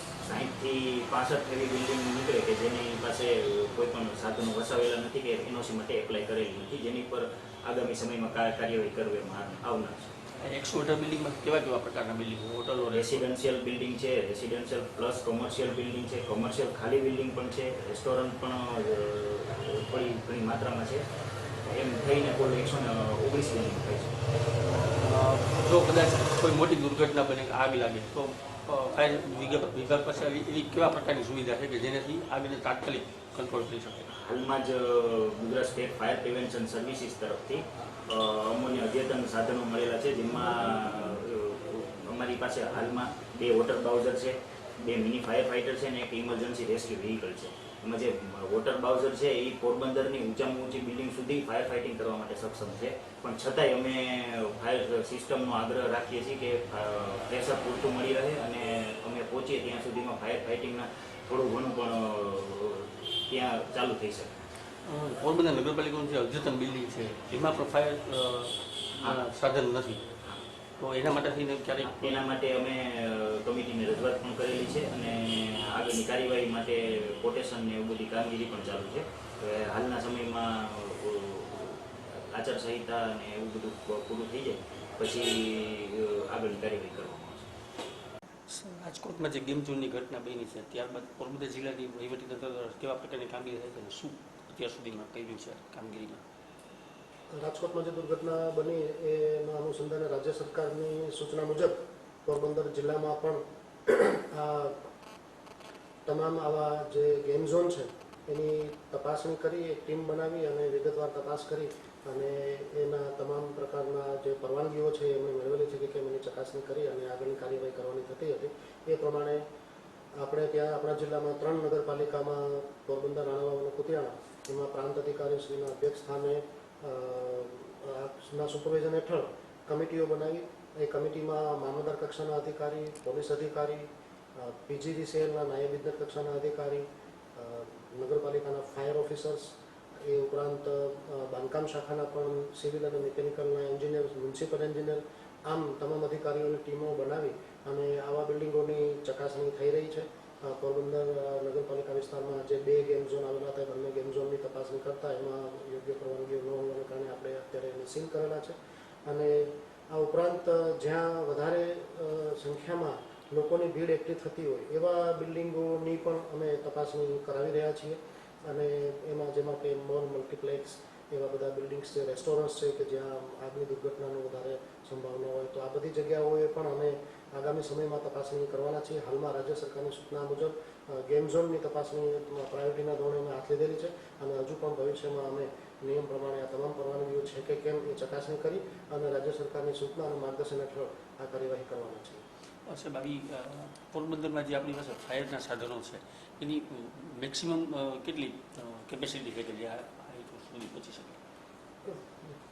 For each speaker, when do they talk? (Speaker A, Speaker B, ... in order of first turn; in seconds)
Speaker A: 0.2-10.1, 12.9-21.0, 21.7-24.1, 34.2-64.4, 71.8-87.5
Speaker B: 10.4-13.2, 25.0-34.0, 64.8-70.0, 70.8-72.2, 88.5-96.2, 192.7-201.2
Speaker C: 97.3-104.8, 106.1-119.4, 120.2-192.2, 201.8-202.3